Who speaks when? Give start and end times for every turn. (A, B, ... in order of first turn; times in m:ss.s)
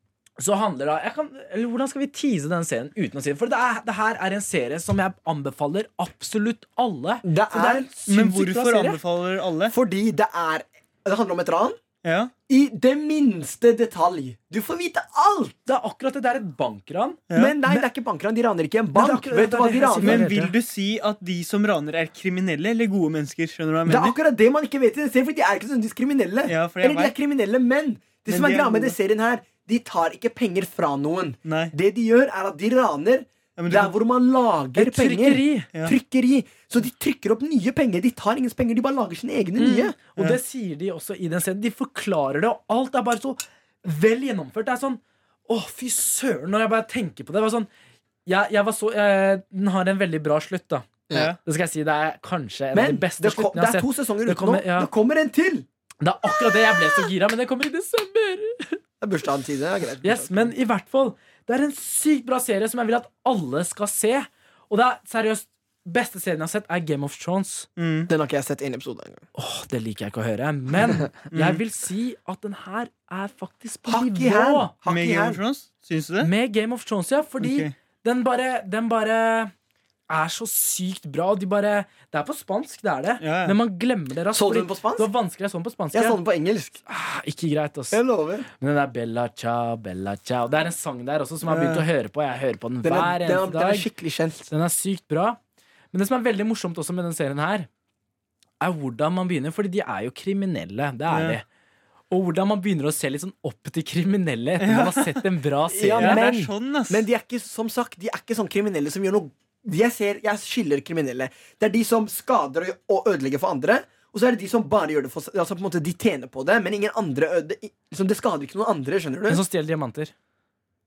0:00.4-0:09.0 A
0:07.2-0:08.0 B
0:08.1-0:09.7 C
0:09.7-0:11.8 B
0:12.0-0:12.3 C
0:12.5-0:15.6 B
0:15.6-0:17.8 A
0:17.3-0:17.6 C
0:17.3-0:20.3 B
0:18.9-0:20.5 A
0:20.0-0:24.2 C
0:23.8-0:39.9 B
0:26.5-0:27.1 C
0:28.3-0:29.0 C
0:31.4-0:31.7 C
0:33.6-0:33.9 C
0:34.8-0:35.7 A
0:39.6-0:47.7 A
0:48.2-0:54.9 A
0:51.1-0:51.3 B
0:51.1-0:51.4 C
0:52.7-0:55.6 B
0:56.0-0:58.8 A
0:59.0-1:00.5 B
1:00.0-1:07.7 A
1:07.8-1:08.1 C
1:08.1-1:09.2 B
1:09.3-1:14.7 A
1:11.3-1:11.6 C
1:13.8-1:15.4 B
1:14.8-1:16.3 C
1:16.2-1:19.5 A
1:17.4-1:17.7 C
1:20.1-1:26.2 A
1:23.2-1:23.6 C
1:24.3-1:25.1 B
1:25.9-1:26.8 B
1:26.8-1:33.9 A
1:27.9-1:28.5 B
1:31.5-1:31.8 C
1:32.8-1:34.5 B
1:34.5-1:35.4 A
1:35.9-1:37.7 A
1:38.6-1:41.4 A
1:41.1-1:41.4 C
1:42.1-1:46.2 A
1:44.6-1:45.3 C
1:45.7-1:59.4 B
1:46.0-1:47.0 C
1:59.3-2:00.1 A